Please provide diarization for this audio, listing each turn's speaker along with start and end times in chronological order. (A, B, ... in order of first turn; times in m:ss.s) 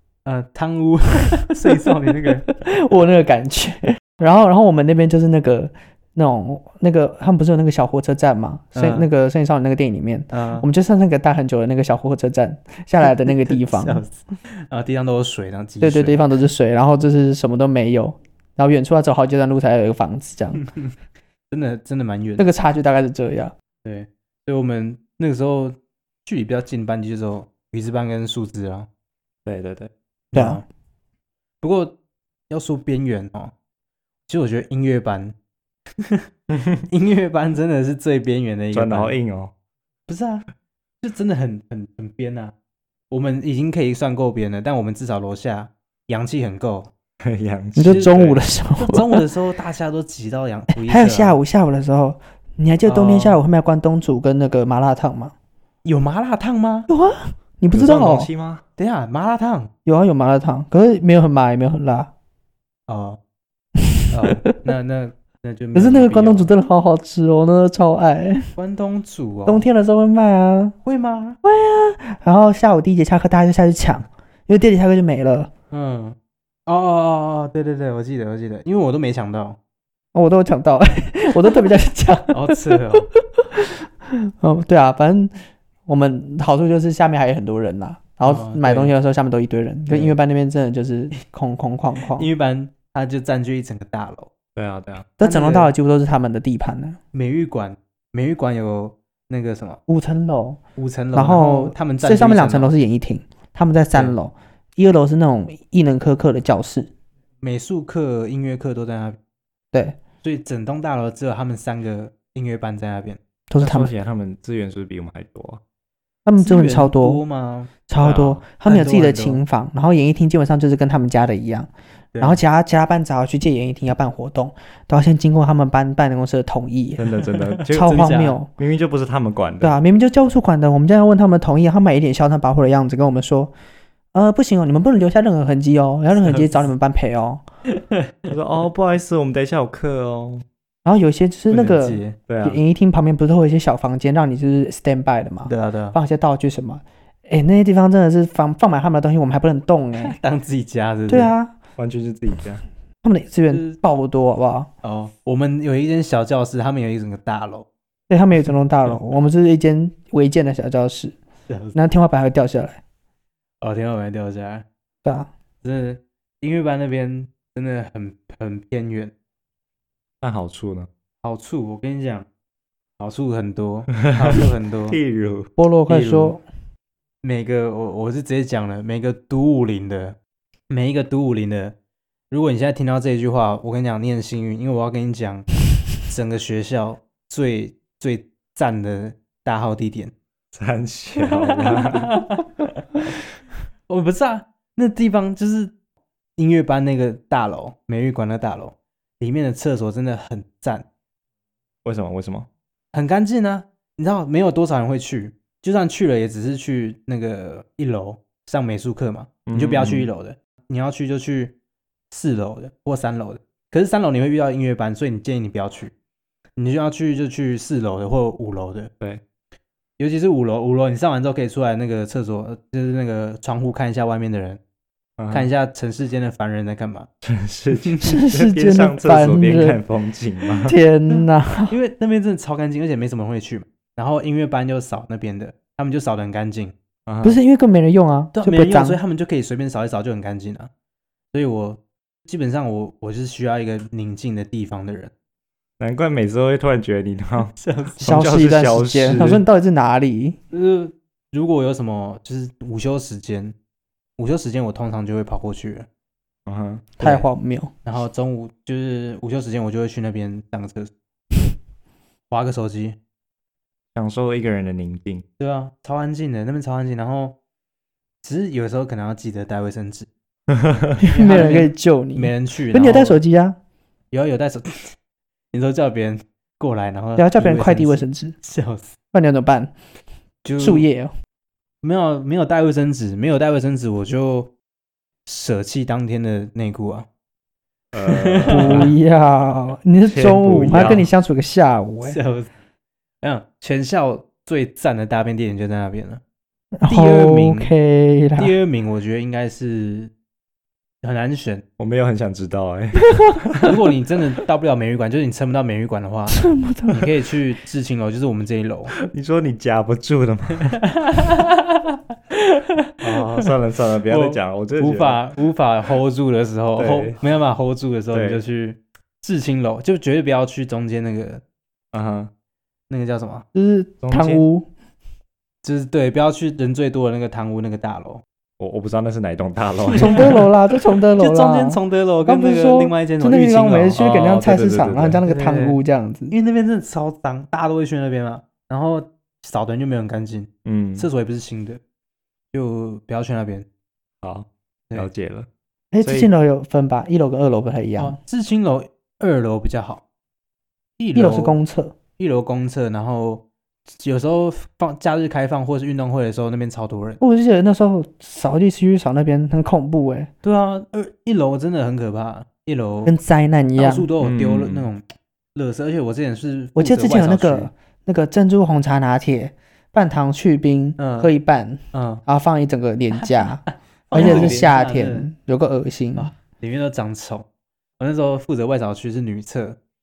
0:00.3-0:02.4 A
0:02.2-0:14.0 B
0:08.8-0:09.1 A
0:10.3-0:10.6 A
0:13.4-0:16.2 A
0:15.8-0:20.6 B
0:20.6-0:20.9 A
0:21.5-0:22.5 A
0:22.4-0:23.5 B
0:23.8-0:25.8 A
0:26.3-0:28.9 A
0:29.5-0:29.9 C
0:30.3-0:30.6 A
0:30.3-0:30.6 B
0:31.6-0:31.9 A
0:32.5-0:33.5 A
0:34.3-0:35.3 A
0:36.5-0:36.8 C
0:36.9-0:39.2 A
0:38.7-0:39.5 C
0:40.1-0:40.4 A
0:41.0-0:42.5 A
0:43.1-0:46.9 A
0:47.2-0:48.4 C
0:47.8-0:49.2 B
0:47.9-0:48.1 A
0:48.8-0:51.4 A
0:50.8-0:55.3 B
0:52.9-0:53.4 A
0:55.8-0:56.9 A
0:56.9-0:58.3 B
0:57.7-0:58.6 C
0:58.8-0:59.7 A
0:59.8-1:02.1 B
1:02.9-1:03.2 A
1:04.1-1:06.5 A
1:04.3-1:04.5 B
1:05.8-1:08.5 B
1:08.6-1:09.7 A
1:09.5-1:10.8 B
1:10.8-1:11.4 A
1:11.4-1:15.5 B
1:15.7-1:16.2 A
1:16.7-1:19.6 A
1:20.1-1:25.3 B
1:22.3-1:23.1 A
1:25.9-1:32.3 B
1:28.3-1:28.9 A
1:29.9-1:30.1 A
1:32.1-1:34.3 A
1:34.6-1:35.1 C
1:35.2-1:37.0 B
1:35.2-1:35.7 A
1:37.1-1:39.8 A
1:39.9-1:40.6 B
1:40.8-1:42.7 A
1:41.2-1:46.9 B
1:47.4-1:49.2 A
1:49.7-1:50.0 B
1:50.2-1:53.2 A
1:53.5-1:53.9 B
1:53.6-1:55.6 C
1:56.3-1:57.2 B
1:56.4-1:59.4 A
1:57.9-2:01.7 B
2:02.1-2:02.4 A
2:02.2-2:07.2 B
2:07.0-2:09.8 C
2:07.4-2:08.4 A
2:07.7-2:08.5 B
2:09.6-2:13.5 B
2:14.1-2:17.4 B
2:16.2-2:16.6 A
2:17.8-2:18.3 A
2:18.3-2:20.4 C
2:20.8-2:30.2 B
2:21.5-2:22.2 A
2:22.3-2:22.6 C
2:25.5-2:26.0 A
2:30.0-2:31.3 A
2:31.1-2:31.6 B
2:31.8-2:32.6 C
2:33.0-2:34.7 B
2:33.5-2:33.8 A
2:34.8-2:37.7 A
2:38.1-2:41.2 B
2:41.5-2:41.8 A
2:41.7-2:42.8 B
2:43.6-2:44.6 A
2:45.0-2:45.3 B
2:45.6-2:49.1 A
2:50.2-2:50.9 C
2:51.2-2:52.3 A
2:53.0-2:55.0 A
2:54.2-2:55.5 C
2:55.6-2:56.4 B
2:55.9-2:56.4 A
2:57.2-3:00.2 A
3:00.7-3:01.8 A
3:02.3-3:05.5 A
3:06.0-3:10.1 A
3:10.5-3:12.2 C
3:11.5-3:12.4 A
3:13.9-3:15.7 A
3:16.4-3:20.8 A
3:21.8-3:22.5 C
3:22.9-3:31.5 A
3:29.5-3:30.1 C
3:32.1-3:35.9 A
3:36.6-3:38.9 A
3:40.0-3:44.6 A
3:45.2-3:45.5 C
3:45.3-3:47.1 A
3:47.2-3:50.8 C
3:48.0-3:49.8 B
3:50.6-3:51.8 B
3:51.1-3:56.7 A
3:57.1-3:57.4 C
3:57.2-3:59.0 B
3:58.3-4:00.7 A
4:01.3-4:05.1 A
4:05.8-4:09.4 C
4:07.5-4:08.2 A
4:08.0-4:10.4 B
4:10.5-4:13.5 A
4:14.2-4:15.9 A
4:16.5-4:16.9 C
4:17.0-4:17.2 A
4:17.0-4:17.7 B
4:17.8-4:20.9 A
4:22.3-4:23.0 A
4:24.0-4:25.2 C
4:25.4-4:27.3 A
4:28.2-4:30.1 A
4:30.5-4:31.0 C
4:31.0-4:33.6 B
4:31.1-4:33.2 A
4:34.1-4:35.0 A
4:35.5-4:39.0 A
4:37.2-4:38.4 B
4:39.1-4:39.7 B
4:40.4-4:40.9 A
4:40.6-4:41.1 B
4:41.8-4:44.5 A
4:45.3-4:47.1 A
4:47.9-4:48.9 C
4:48.0-4:48.9 A
4:48.5-4:52.2 B
4:50.1-4:51.0 C
4:50.7-4:51.0 A
4:52.0-4:52.5 A
4:53.2-4:56.2 A
4:56.8-4:58.5 B
4:56.9-4:57.7 A
4:58.4-5:00.1 A
5:01.0-5:01.6 A
5:01.8-5:03.7 C
5:03.6-5:09.0 A
5:06.3-5:07.0 B
5:09.0-5:10.8 C
5:10.9-5:13.5 A
5:13.0-5:15.2 C
5:14.1-5:21.4 A
5:16.8-5:17.2 C
5:18.1-5:18.4 C
5:21.9-5:22.3 C
5:22.9-5:23.5 A
5:23.5-5:24.7 B
5:24.0-5:24.4 C
5:25.6-5:28.2 A
5:28.6-5:30.5 C
5:29.9-5:36.3 B
5:31.2-5:34.0 A
5:34.0-5:35.2 C
5:35.3-5:35.8 A
5:36.3-5:41.8 A
5:40.6-5:41.1 C
5:42.5-5:43.6 A
5:44.2-5:45.5 C
5:45.9-5:48.2 B
5:46.0-5:46.3 C
5:48.0-5:50.0 A
5:51.0-5:51.6 A
5:51.2-5:51.9 B
5:52.2-5:53.4 A
5:53.9-5:57.2 A
5:57.2-6:00.3 B
6:00.4-6:03.1 A
6:03.1-6:04.1 B
6:03.8-6:05.0 A
6:04.2-6:04.9 C
6:05.6-6:07.7 A
6:06.8-6:13.6 B
6:11.0-6:11.3 A
6:11.9-6:12.2 A
6:13.1-6:15.3 A
6:14.1-6:16.3 B
6:14.2-6:14.5 C
6:16.2-6:17.4 A
6:18.0-6:19.8 A